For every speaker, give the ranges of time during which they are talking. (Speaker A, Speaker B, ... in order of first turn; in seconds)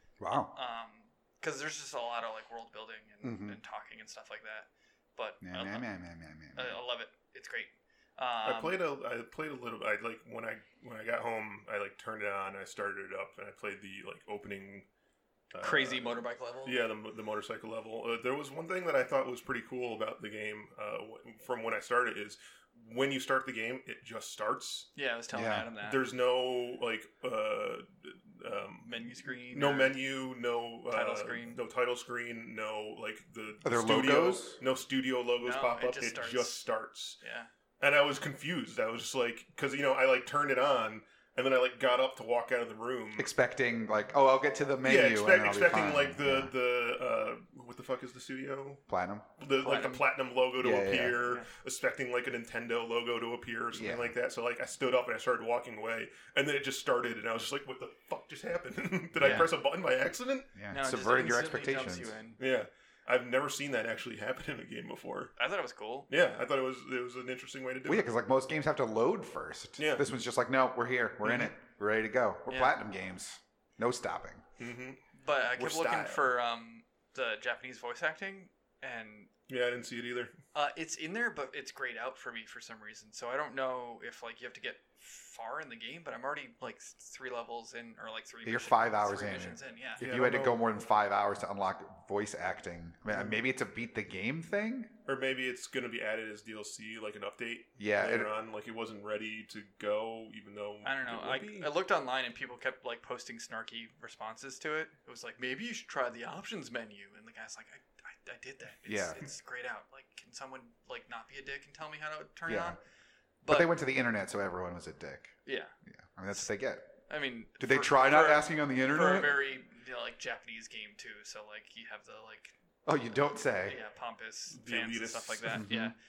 Speaker A: 0.2-0.5, 3.2-3.6, 5.4-6.8, 25.3-25.7, 33.6-34.6, 43.2-46.5, 48.9-49.2, 50.6-51.2, 53.7-54.1, 59.2-59.5, 60.5-62.2, 67.8-74.4, 88.4-94.9, 97.8-98.3, 108.8-109.2, 112.5-112.8, 113.5-116.9, 117.6-119.4, 122.8-123.8, 125.5-125.9
Speaker B: 0.5-5.9, 6.5-8.8, 15.6-16.8, 24.9-26.0, 28.8-30.0, 30.9-31.6, 35.4-36.6, 37.2-37.5, 49.6-50.1, 51.2-51.5, 60.7-62.4, 65.4-66.1, 72.5-72.8, 75.2-79.3, 80.5-90.0, 100.8-112.8, 113.4-113.7, 115.4-115.7, 117.1-122.5, 123.6-125.9
Speaker C: 8.4-14.9, 15.5-24.9, 25.8-37.2, 37.8-43.3, 44.8-48.8, 49.4-60.5, 62.4-65.3, 66.1-68.1, 69.8-70.1, 71.2-71.5, 74.6-75.0, 75.6-76.3, 79.5-80.3, 90.0-90.7, 93.1-93.4, 95.0-101.7, 124.5-125.6